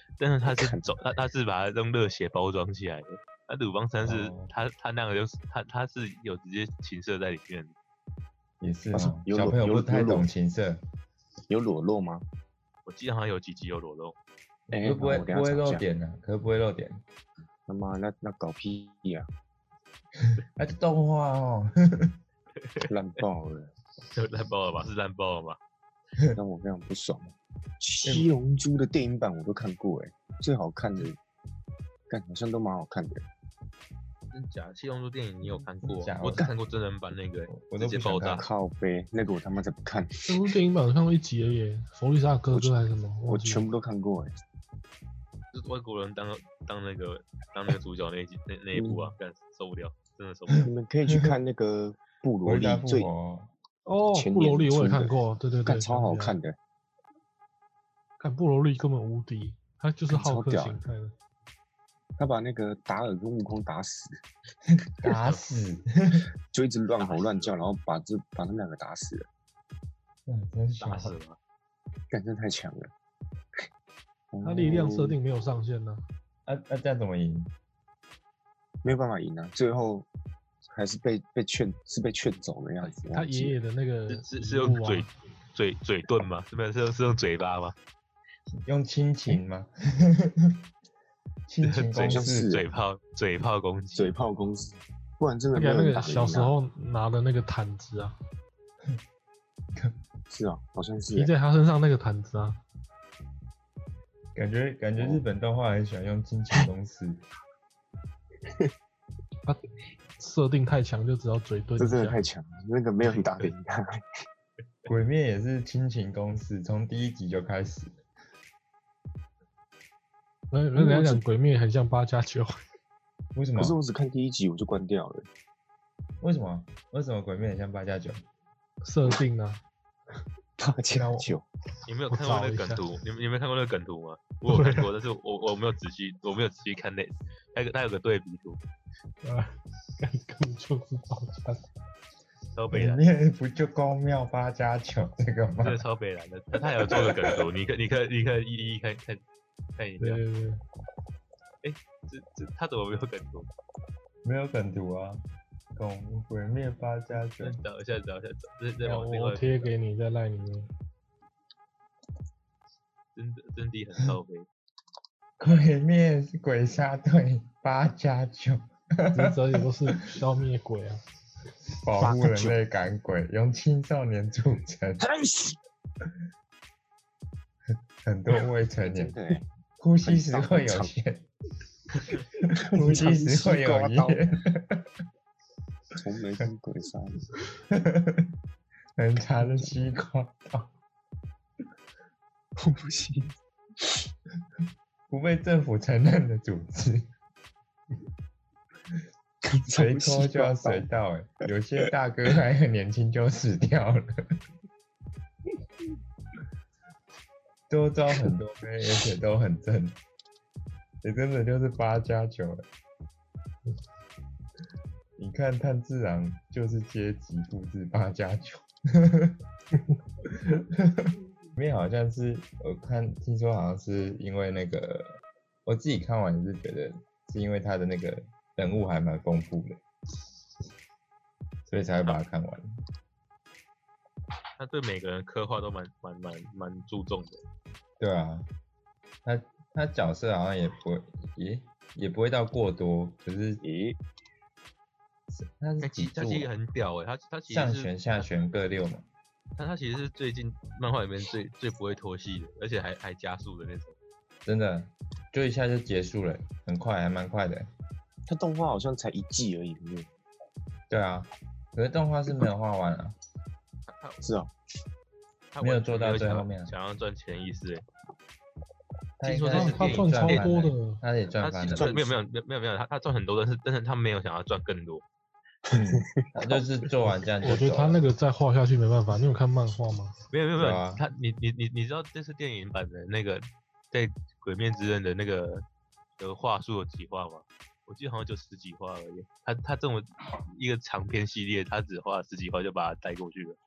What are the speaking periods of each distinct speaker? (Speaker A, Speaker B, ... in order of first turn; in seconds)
Speaker A: 0.2-7.7, 12.8-14.2, 22.6-22.9, 24.1-25.6, 34.3-38.4, 45.5-50.7, 65.1-65.4, 66.9-67.5, 70.8-71.4, 84.1-87.8, 91.6-94.1, 131.9-138.6, 142.5-143.0, 145.6-149.2, 149.8-150.2, 151.6-153.5, 157.4-159.7, 163.1-164.5, 234.6-237.4, 245.8-247.9, 249.6-253.9, 263.9-264.2, 265.5-267.8, 269.2-270.5, 271.4-275.0, 280.3-285.6, 286.2-293.6
Speaker B: 0.4-1.0, 8.9-10.3, 11.5-12.2, 14.7-15.8, 17.7-19.3, 22.9-23.7, 26.3-31.2, 32.1-33.2, 38.3-40.5, 42.5-44.3, 48.7-49.1, 50.6-53.1, 54.1-56.5, 60.1-60.8, 62.2-64.2, 66.5-69.3, 72.1-72.9, 74.3-75.2, 78.8-80.1, 80.7-83.6, 92.0-92.7, 93.9-96.5, 100.3-101.3, 105.0-105.2, 108.4-108.7, 111.8-114.0, 120.7-121.2, 123.5-125.3, 130.6-131.4, 172.0-172.6, 175.0-175.6, 178.8-179.4, 180.0-180.9, 182.6-184.2, 185.9-187.3, 189.4-189.7, 192.6-194.0, 199.4-200.9, 243.6-244.0, 258.3-260.1, 264.2-264.5, 271.7-272.2, 275.7-276.6
Speaker C: 4.0-4.5, 8.6-10.8, 14.8-17.0, 20.2-22.2, 28.0-28.3, 35.4-36.5, 37.5-38.4, 52.4-53.5, 65.0-66.3, 70.2-71.1, 76.5-77.5, 88.6-90.6, 91.5-92.5, 104.3-107.2, 114.9-118.0, 123.3-123.8, 126.2-128.2, 142.7-145.8, 154.2-155.2, 155.7-157.6, 165.4-169.4, 171.8-175.0, 178.0-179.1, 179.8-181.2, 182.4-184.9, 187.7-188.3, 188.9-190.7, 195.1-197.1, 199.7-204.1, 207.7-210.0, 211.0-212.7, 215.2-219.4, 220.2-229.8, 231.7-232.7, 238.0-238.5, 239.2-243.6, 245.3-246.5, 247.5-249.1, 254.4-257.7, 260.9-263.2, 265.6-266.7, 269.2-271.9, 275.7-278.0, 280.6-281.0
Speaker D: 40.2-43.6, 53.9-56.4, 58.2-61.1, 74.4-76.0, 83.1-85.1, 95.5-98.2, 101.1-102.6, 110.2-112.2, 120.5-122.6, 128.8-129.6, 131.0-131.2, 132.1-132.8, 134.5-134.9, 139.2-141.7, 150.0-150.6, 158.8-160.7, 169.1-171.0, 269.5-271.0, 277.4-280.1